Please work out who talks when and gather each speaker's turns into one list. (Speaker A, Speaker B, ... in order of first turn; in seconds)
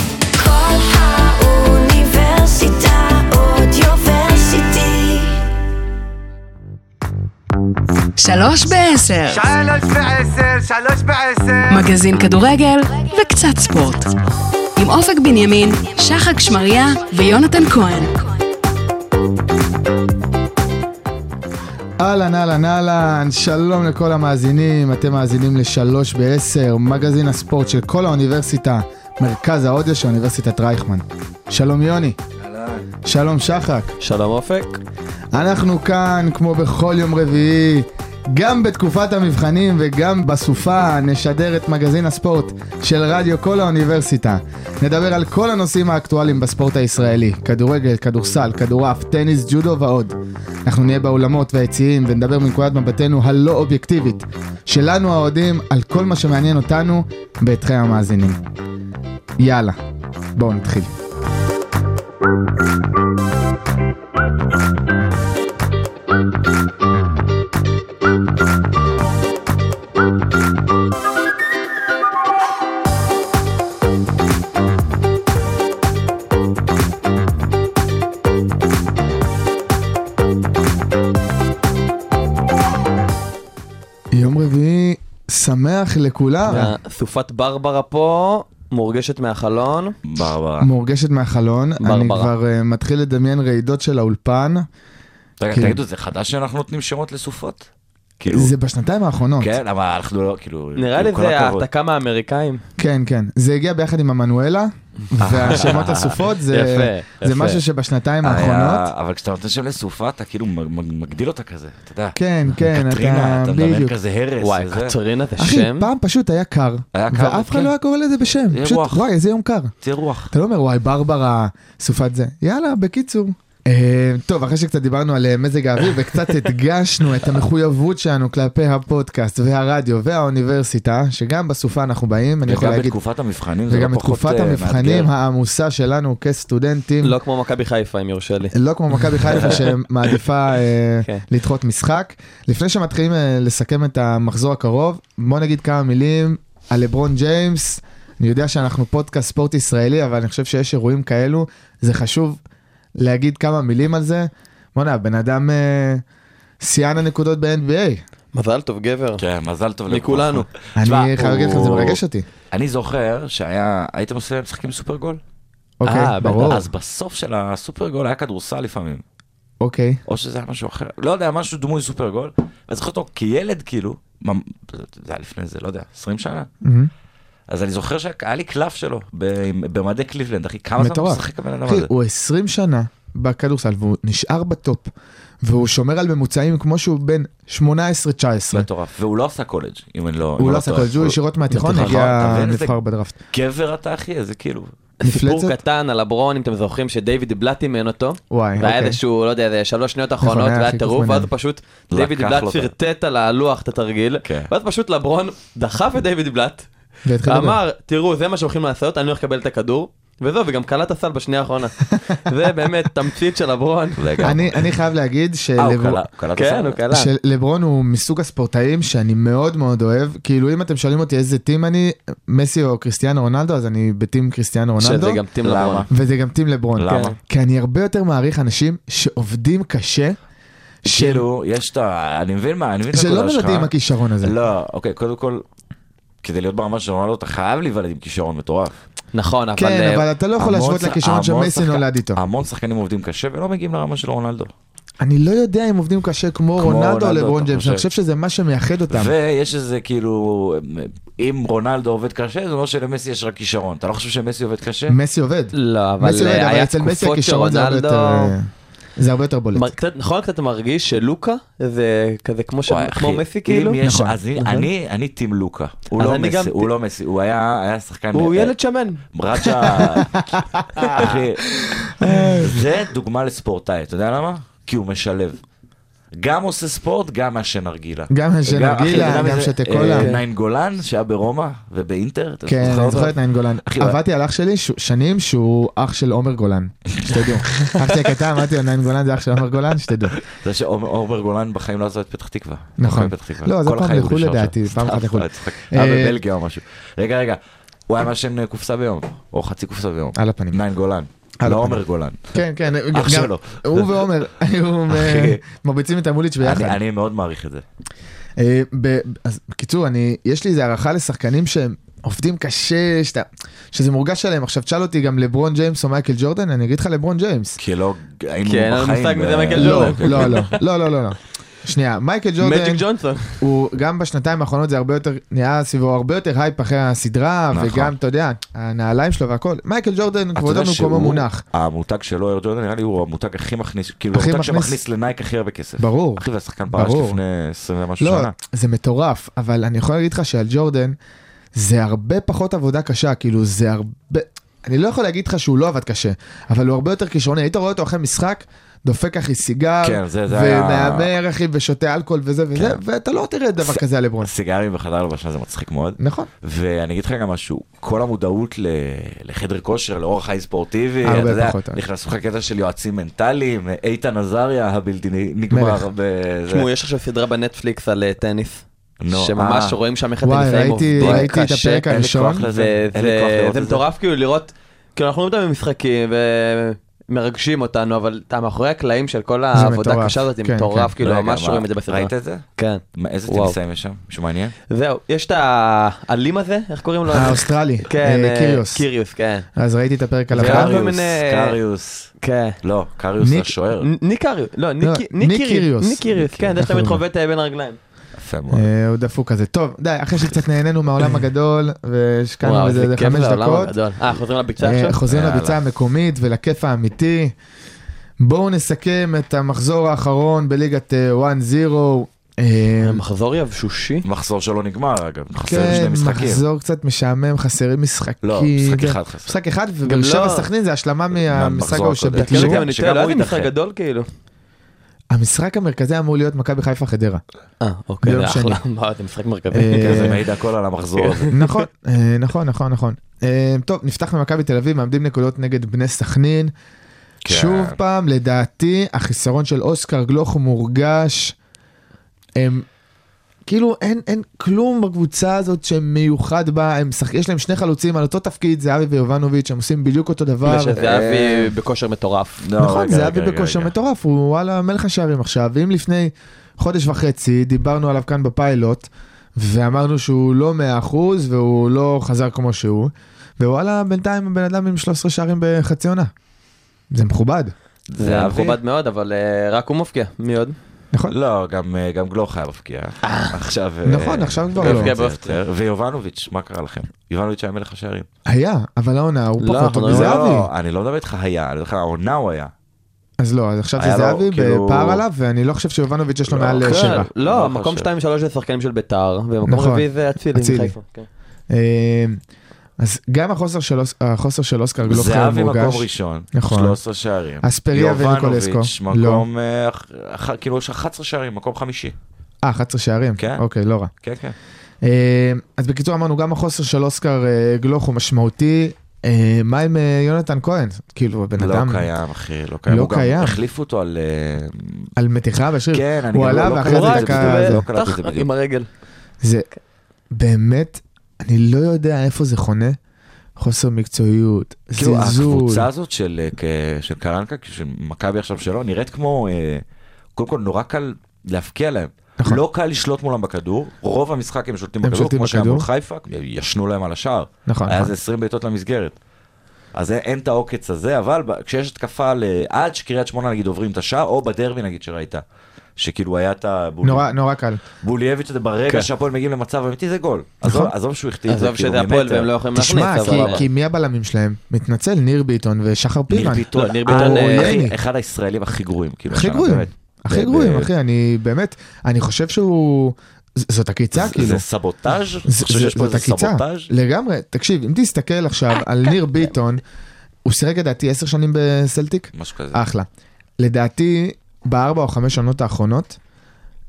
Speaker A: 0.4-5.4
Speaker B: 8.2-9.4, 11.7-14.1, 14.8-18.2
Speaker C: 9.3-11.8, 22.0-32.2, 33.0-34.0, 35.3-58.4, 59.4-59.8, 60.4-60.9, 84.1-86.7, 90.6-94.7, 95.5-95.8, 98.3-99.5, 102.8-108.9, 112.1-114.0, 115.4-119.7, 120.3-132.9, 133.7-137.2, 138.5-152.4, 152.9-156.0, 156.6-158.0, 160.8-162.3, 165.8-166.7, 169.6-170.0, 176.6-176.9, 180.8-184.9, 185.4-188.7, 190.4-193.2, 195.0-195.6, 198.3-199.0, 200.2-201.3, 207.0-207.6, 214.2-216.0, 216.9-225.2, 225.9-230.2, 230.8-231.2, 232.9-234.3, 239.6-242.2, 245.0-249.1, 254.9-259.7, 263.8-264.7, 269.9-272.6, 278.1-280.1, 282.4-290.2, 292.8-296.2, 300.1-300.6, 301.4-306.8, 308.4-317.6, 319.6-322.8, 323.4-331.4, 334.1-334.8, 335.8-337.2, 338.0-340.9, 341.6-354.3, 356.0-356.3, 361.0-361.8, 365.5-365.8, 370.2-372.4, 379.5-380.9, 387.1-388.8, 389.6-390.7, 393.2-393.5, 394.8-396.1, 396.6-397.0, 398.5-403.7, 404.6-407.3, 408.2-413.0, 415.4-422.6, 425.1-427.2, 428.0-428.6, 429.5-430.2, 431.3-436.5, 437.2-441.4, 442.4-442.6, 443.4-450.8, 452.6-466.1, 466.9-467.5, 473.8-474.9, 478.3-480.5, 483.2-487.1, 489.4-490.8, 491.5-492.2, 492.8-496.8, 497.4-499.2, 502.4-503.9, 504.8-511.9, 512.7-513.4, 515.0-517.6, 519.2-519.5, 520.1-522.8, 523.4-525.7, 534.8-535.6, 537.5-537.9, 546.8-547.6, 550.4-550.7, 552.6-557.8, 559.1-564.4, 565.2-569.6, 570.2-572.9, 573.4-576.0
Speaker D: 34.0-34.8, 86.5-90.0, 91.8-92.3, 100.8-102.6, 106.5-107.6, 114.4-115.9, 137.0-138.5, 139.3-139.7, 158.3-159.2, 159.9-160.4, 165.8-166.6, 191.5-192.0, 195.0-206.7, 207.2-214.2, 216.3-217.1, 224.8-225.9, 226.8-227.1, 239.1-240.1, 255.5-258.3, 259.6-263.8, 265.9-266.7, 268.1-269.9, 270.8-271.1, 279.9-280.2, 318.4-320.6, 322.4-323.4, 366.5-371.9, 372.5-383.6, 384.7-389.5, 390.4-391.6, 392.2-392.6, 393.8-397.8, 402.4-405.0, 412.8-414.1, 419.8-420.5, 422.2-424.1, 427.6-430.1, 431.0-431.5, 450.4-452.4, 468.0-470.6, 473.0-473.3, 474.6-475.4, 479.4-480.2, 486.6-491.1, 516.6-518.7, 551.3-553.4, 556.5-557.5
Speaker E: 90.0-90.7, 95.4-97.7, 98.2-98.5, 99.4-101.7, 105.2-106.2, 108.2-115.0, 116.9-117.7, 118.5-119.1, 119.8-120.3, 132.4-135.1, 159.2-165.2, 166.3-169.0, 170.1-176.5, 177.5-181.9, 188.5-192.8, 193.3-194.7, 201.9-202.7, 204.2-204.5, 214.0-214.7, 215.6-216.8, 225.4-225.9, 226.8-227.2, 230.8-235.4, 236.2-238.8, 240.4-244.5, 246.6-247.9, 248.9-255.0, 262.7-268.6, 269.1-275.4, 276.1-284.0, 287.0-287.4, 290.2-302.4, 302.9-304.1, 304.9-305.4, 306.4-307.6, 317.6-320.5, 327.5-327.9, 330.4-338.3, 349.8-351.1, 353.6-366.7, 369.0-369.8, 371.0-371.3, 371.8-373.8, 381.0-384.6, 390.3-393.9, 396.1-396.5, 398.2-398.7, 405.1-405.6, 414.1-416.4, 418.2-419.4, 421.2-423.5, 429.8-431.3, 437.2-437.8, 450.8-451.5, 452.4-453.7, 467.9-468.6, 471.1-478.1, 479.9-482.5, 483.8-485.0, 486.3-487.9, 494.9-501.9, 503.2-503.4, 504.0-504.4, 511.4-514.9, 515.7-518.3, 524.8-529.6, 530.1-539.0, 539.7-545.2, 545.8-547.1, 547.8-552.3, 552.9-553.4, 556.1-560.7, 563.9-566.7, 572.1-572.6